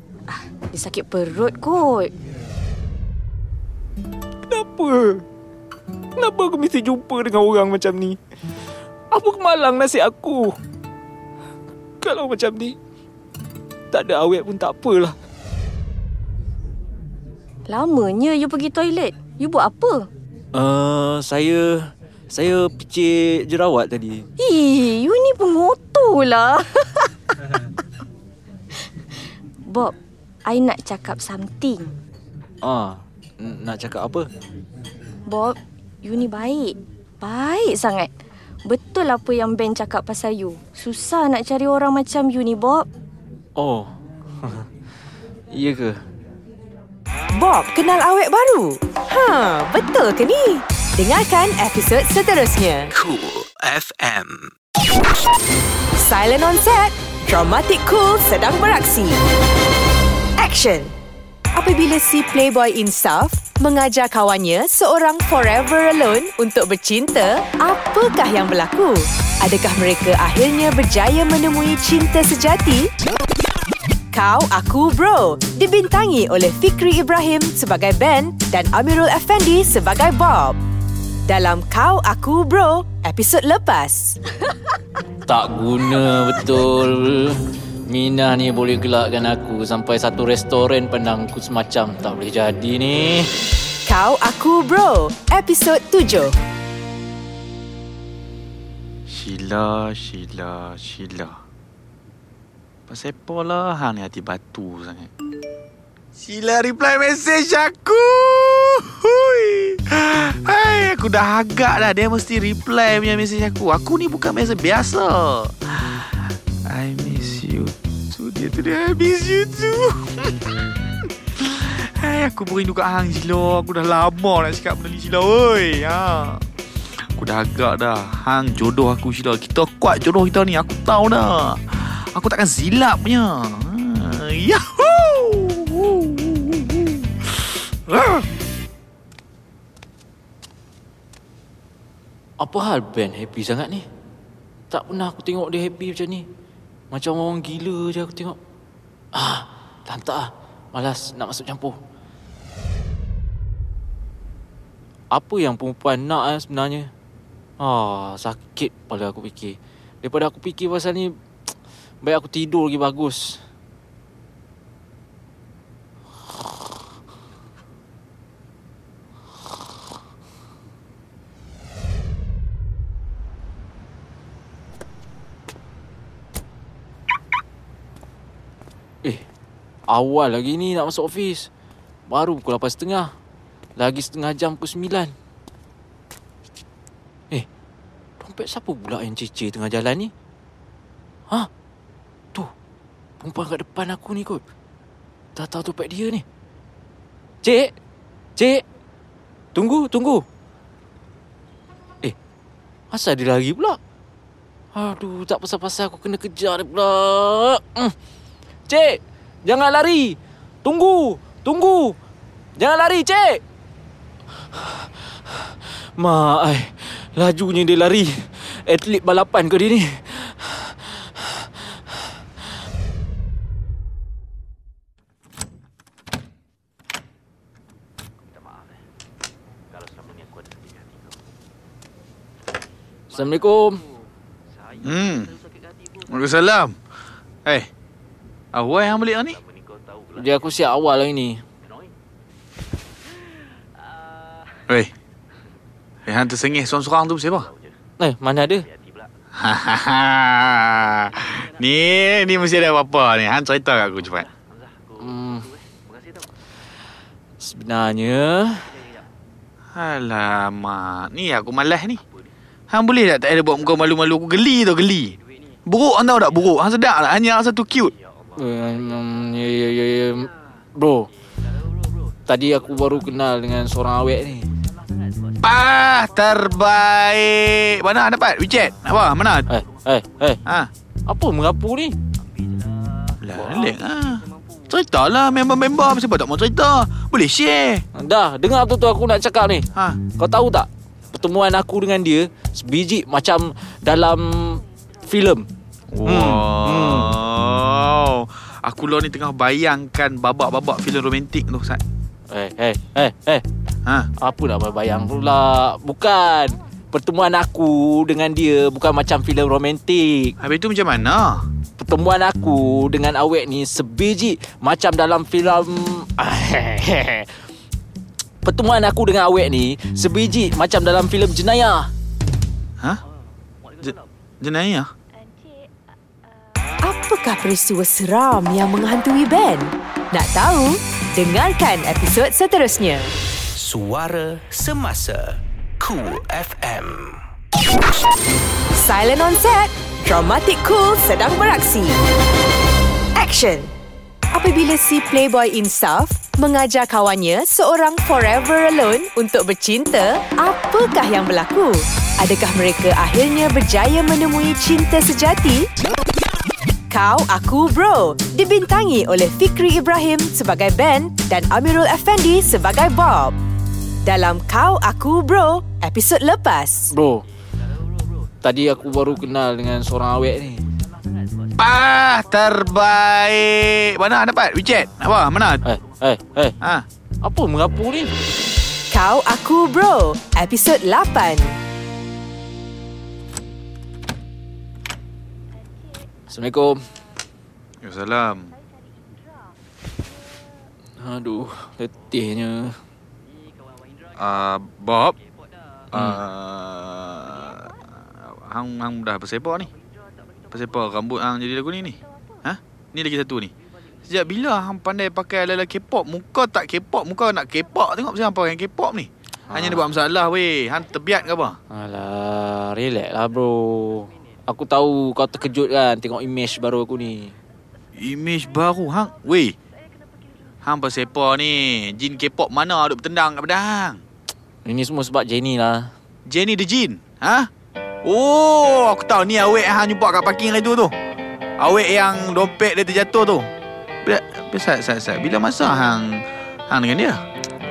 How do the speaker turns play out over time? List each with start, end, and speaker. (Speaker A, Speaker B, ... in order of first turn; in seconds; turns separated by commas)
Speaker A: 0.7-2.1, Speaker B: 4.5-5.2, Speaker B: 6.2-8.2, Speaker B: 9.1-10.6, Speaker B: 12.0-12.8, Speaker B: 13.9-15.2, Speaker A: 17.7-20.1, Speaker B: 20.6-24.3, Speaker A: 24.4-27.1, Speaker A: 29.7-29.9, Speaker A: 30.5-31.9, Speaker B: 32.6-34.3, Speaker A: 35.3-38.1, Speaker A: 38.7-42.9, Speaker B: 43.6-44.7, Speaker B: 45.5-46.0, Speaker C: 47.3-52.9, Speaker D: 52.9-54.5, Speaker C: 56.0-59.2, Speaker C: 60.4-60.9, Speaker C: 61.5-72.9, Speaker C: 74.1-80.6, Speaker C: 81.3-84.2, Speaker B: 85.3-93.3, Speaker C: 93.9-96.3, Speaker E: 99.1-101.4, Speaker E: 102.9-105.1, Speaker E: 106.2-120.4, Speaker E: 121.4-126.4, Speaker E: 127.2-137.1, Speaker E: 137.9-138.3, Speaker B: 142.4-143.9, Speaker B: 144.7-146.2, Speaker B: 146.9-148.4, Speaker B: 149.1-151.8, Speaker B: 155.1-156.9, Speaker B: 157.6-161.2, Speaker B: 162.0-163.4, Speaker B: 179.9-181.5, Speaker B: 182.1-183.1, Speaker B: 183.8-185.1, Speaker B: 188.2-190.1, Speaker B: 193.2-194.4, Speaker B: 195.4-196.2, Speaker B: 197.4-197.7, Speaker B: 198.4-198.6, Speaker B: 199.6-200.2, Speaker B: 202.9-203.8, Speaker B: 204.8-207.9, Speaker B: 208.7-211.9, Speaker B: 212.6-213.4, Speaker B: 214.5-221.9, Speaker B: 233.1-233.8, Speaker E: 234.8-235.4, Speaker E: 236.1-236.8, Speaker E: 238.5-239.4, Speaker B: 240.2-241.4, Speaker E: 246.1-247.5, Speaker B: 248.0-248.7, Speaker E: 249.4-254.3, Speaker B: 255.0-255.5, Speaker B: 257.4-258.8, Speaker E: 259.8-262.0, Speaker E: 262.7-267.9, Speaker B: 268.4-271.1, Speaker B: 272.3-274.4, Speaker E: 275.4-279.5, Speaker B: 279.5-280.4, Speaker B: 281.1-281.9, Speaker E: 283.2-287.8, Speaker B: 288.0-295.5, Speaker E: 295.9-301.8, Speaker B: 296.1-297.1, Speaker B: 302.3-303.4, Speaker B: 304.2-310.3, Speaker E: 310.4-311.5, Speaker B: 311.8-317.4, Speaker B: 318.4-321.9, Speaker E: 323.8-324.9, Speaker C: 326.8-333.1, Speaker D: 333.6-337.2, Speaker C: 338.7-342.0, Speaker C: 343.2-343.7, Speaker C: 344.3-355.7, Speaker C: 356.9-363.4, Speaker C: 364.1-366.9, Speaker B: 366.9-367.2, Speaker B: 368.4-370.6, Speaker E: 371.6-375.6, Speaker B: 375.6-376.5, Speaker B: 377.2-378.1, Speaker C: 378.9-381.6, Speaker B: 386.3-386.8, Speaker E: 387.8-388.5, Speaker B: 391.0-392.8, Speaker E: 394.2-395.2, Speaker E: 395.9-399.7, Speaker B: 395.9-396.2, Speaker E: 400.5-403.5, Speaker E: 404.1-411.6, Speaker B: 409.5-409.8, Speaker B: 411.7-417.3, Speaker E: 418.0-419.6, Speaker E: 420.6-424.0, Speaker B: 424.6-425.9, Speaker E: 426.3-427.5, Speaker E: 428.1-430.9, Speaker E: 431.6-433.5, Speaker E: 434.1-437.2